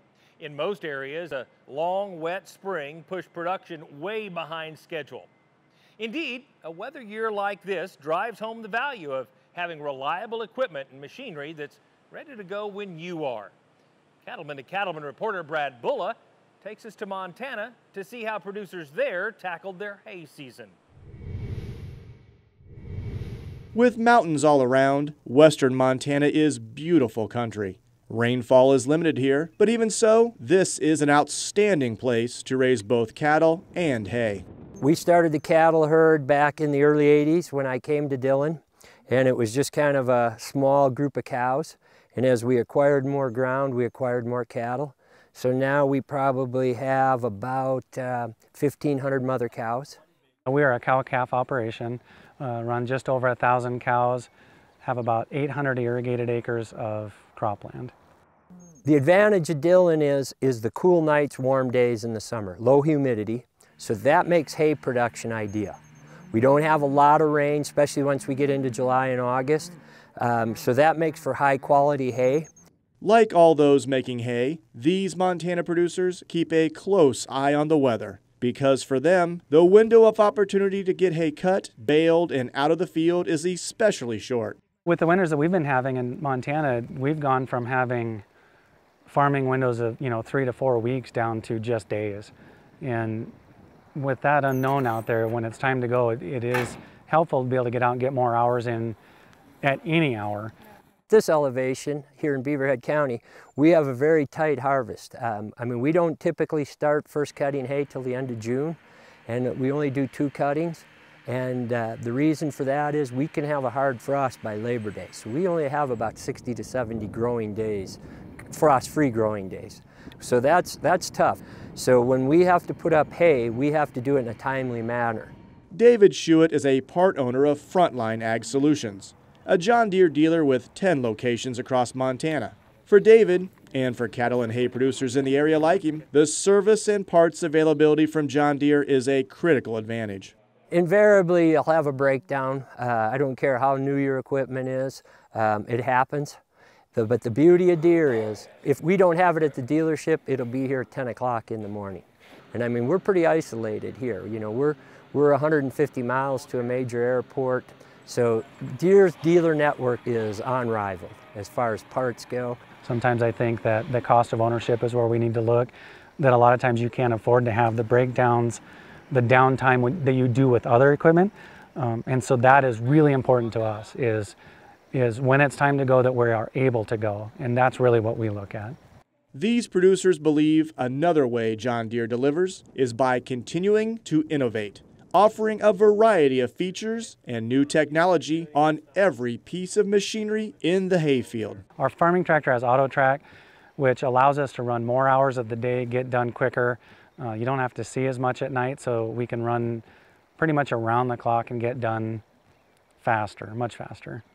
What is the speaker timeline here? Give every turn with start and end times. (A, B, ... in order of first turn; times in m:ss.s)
0:00.4-0:05.3 A
0:06.0-0:13.5 A
0:14.2-0:20.8 A
0:23.7-0:34.4 B
0:34.8-0:50.0 C
0:50.4-0:54.3 D
0:54.8-0:57.9 D
0:58.8-1:05.8 C
1:06.3-1:12.5 C
1:13.0-1:24.6 B
1:24.8-1:28.2 D
1:29.1-1:33.3 D
1:34.0-1:39.0 D
1:39.6-1:40.5 D
1:41.1-1:58.0 C
1:58.5-2:05.3 C
2:05.7-2:20.3 B
2:20.7-2:26.4 C
2:26.9-2:42.6 C
2:42.8-2:54.3 D
2:54.9-2:58.8 D
2:59.3-3:11.6 B
3:11.8-3:13.2 D
3:13.8-3:19.8 D
3:20.4-3:22.2 D
3:23.0-3:24.2 D